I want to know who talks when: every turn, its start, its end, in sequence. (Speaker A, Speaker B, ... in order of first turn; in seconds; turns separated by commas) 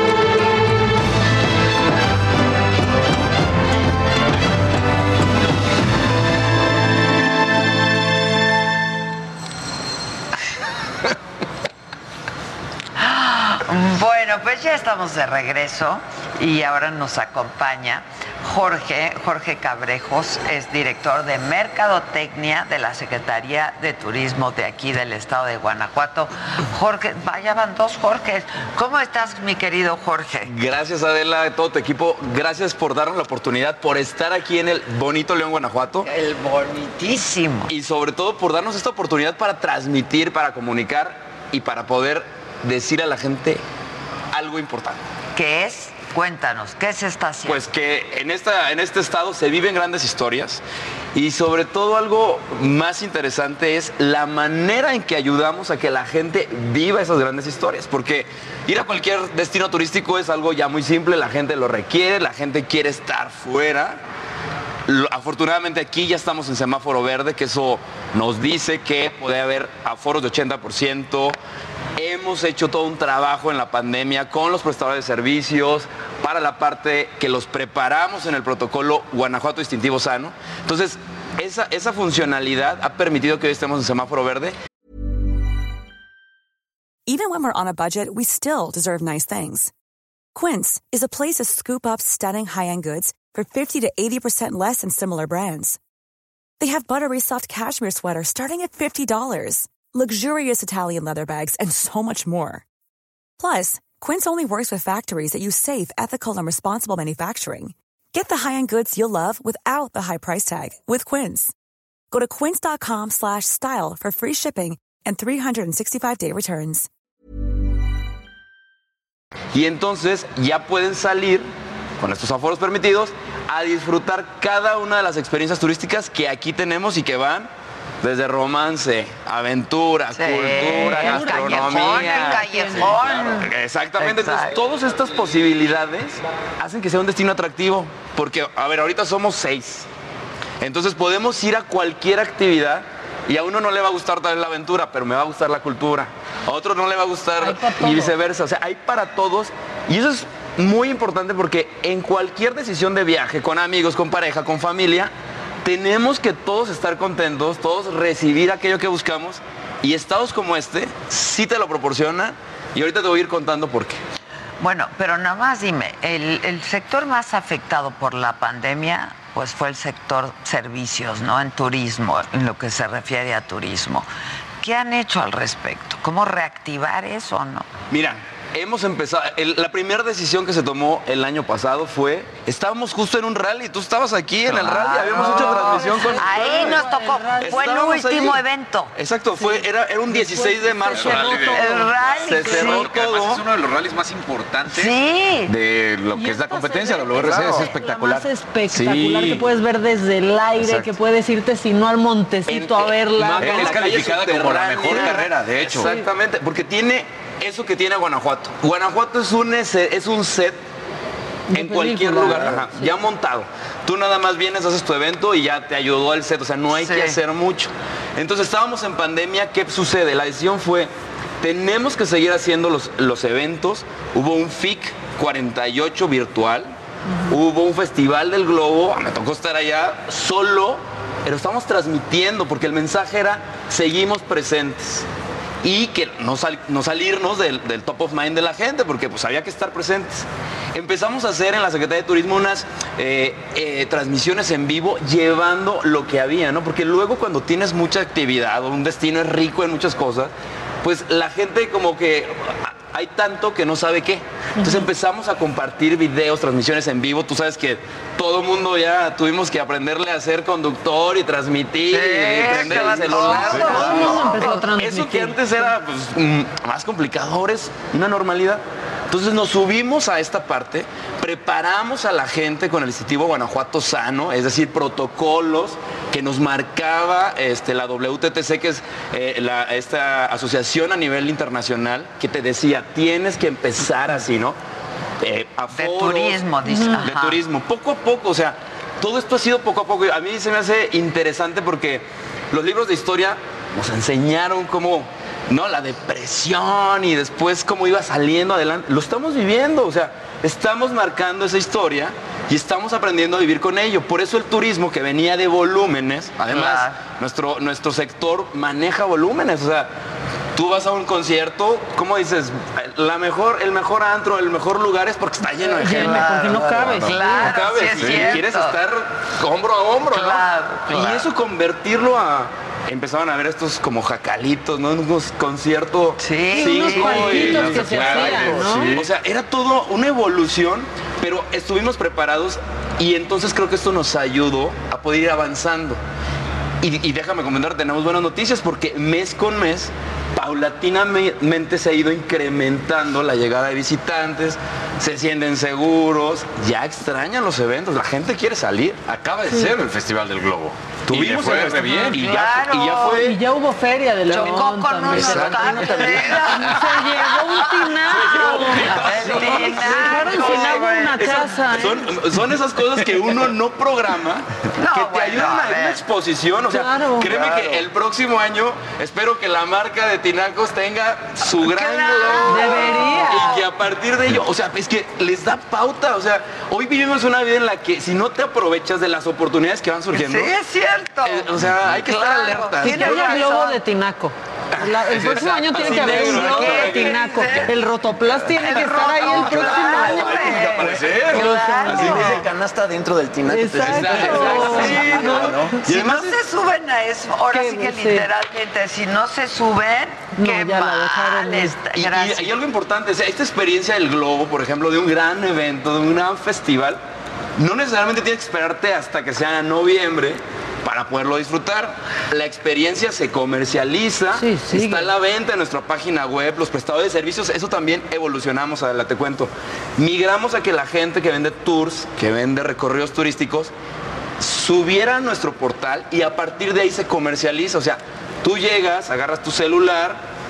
Speaker A: 13.0-30.5, Speaker B: 30.5-36.1, Speaker A: 36.0-37.7, Speaker B: 37.7-43.6, Speaker B: 44.3-45.0, Speaker A: 45.4-47.6, Speaker B: 47.5-50.6, Speaker B: 51.1-64.0, Speaker B: 64.9-71.4, Speaker B: 72.0-84.5, Speaker C: 87.1-89.7, Speaker C: 90.3-95.8, Speaker C: 96.6-102.6, Speaker C: 103.4-111.5, Speaker C: 112.1-116.9, Speaker B: 119.5-121.5, Speaker B: 122.0-127.5, Speaker B: 128.0-132.4, Speaker A: 130.1-134.6, Speaker D: 130.6-133.0, Speaker B: 133.1-139.9, Speaker B: 140.6-155.1, Speaker D: 147.4-148.1, Speaker B: 155.6-164.0, Speaker A: 164.6-174.1, Speaker A: 174.6-177.7, Speaker B: 177.9-186.8, Speaker E: 184.5-186.0, Speaker D: 184.7-188.1, Speaker A: 184.8-188.9, Speaker B: 187.4-188.4, Speaker B: 189.0-191.6, Speaker D: 189.4-191.9, Speaker E: 190.8-199.6, Speaker A: 191.5-192.9, Speaker B: 192.2-193.4, Speaker A: 194.7-195.5, Speaker D: 196.1-203.8, Speaker E: 200.6-201.0, Speaker B: 202.5-210.6, Speaker E: 203.3-205.9, Speaker D: 205.8-206.1, Speaker D: 211.5-212.9, Speaker B: 211.5-226.7, Speaker A: 216.7-217.2, Speaker B: 227.3-235.0, Speaker B: 235.6-250.3, Speaker B: 250.8-284.6, Speaker D: 254.6-254.9, Speaker A: 261.9-264.4, Speaker E: 262.4-264.5, Speaker D: 263.6-265.7, Speaker B: 285.2-286.4, Speaker A: 285.7-287.4, Speaker D: 286.7-287.1, Speaker B: 287.0-309.9, Speaker A: 306.5-307.0, Speaker B: 310.6-316.3, Speaker D: 315.8-317.5, Speaker A: 315.8-318.8, Speaker E: 316.0-318.4, Speaker B: 317.4-336.0, Speaker A: 320.1-321.3, Speaker A: 326.2-327.6, Speaker D: 326.5-328.9, Speaker E: 327.2-329.2, Speaker F: 328.1-328.7, Speaker B: 336.8-349.0, Speaker E: 349.1-352.3, Speaker D: 349.5-349.7, Speaker B: 351.1-353.4, Speaker A: 352.1-353.3, Speaker D: 353.2-362.1, Speaker A: 354.3-358.2, Speaker E: 355.1-357.0, Speaker E: 358.0-360.7, Speaker B: 358.2-380.5, Speaker A: 358.9-361.6, Speaker E: 362.5-363.3, Speaker A: 364.8-366.0, Speaker D: 366.7-367.4, Speaker A: 371.4-373.7, Speaker D: 372.5-373.5, Speaker A: 380.1-383.8, Speaker B: 381.2-383.5, Speaker D: 382.8-390.8, Speaker B: 385.1-387.3, Speaker E: 385.2-386.0, Speaker A: 385.7-387.7, Speaker A: 388.6-392.4, Speaker B: 389.3-391.4, Speaker E: 390.3-392.2, Speaker F: 390.5-395.8, Speaker D: 391.6-392.2, Speaker B: 391.9-392.4, Speaker D: 393.5-395.8, Speaker E: 393.8-394.8, Speaker B: 393.8-396.4, Speaker A: 394.5-395.2, Speaker A: 395.9-402.6, Speaker D: 397.5-398.3, Speaker D: 400.4-401.9, Speaker B: 401.9-407.0, Speaker B: 407.6-423.7, Speaker D: 414.3-415.1, Speaker B: 424.4-430.2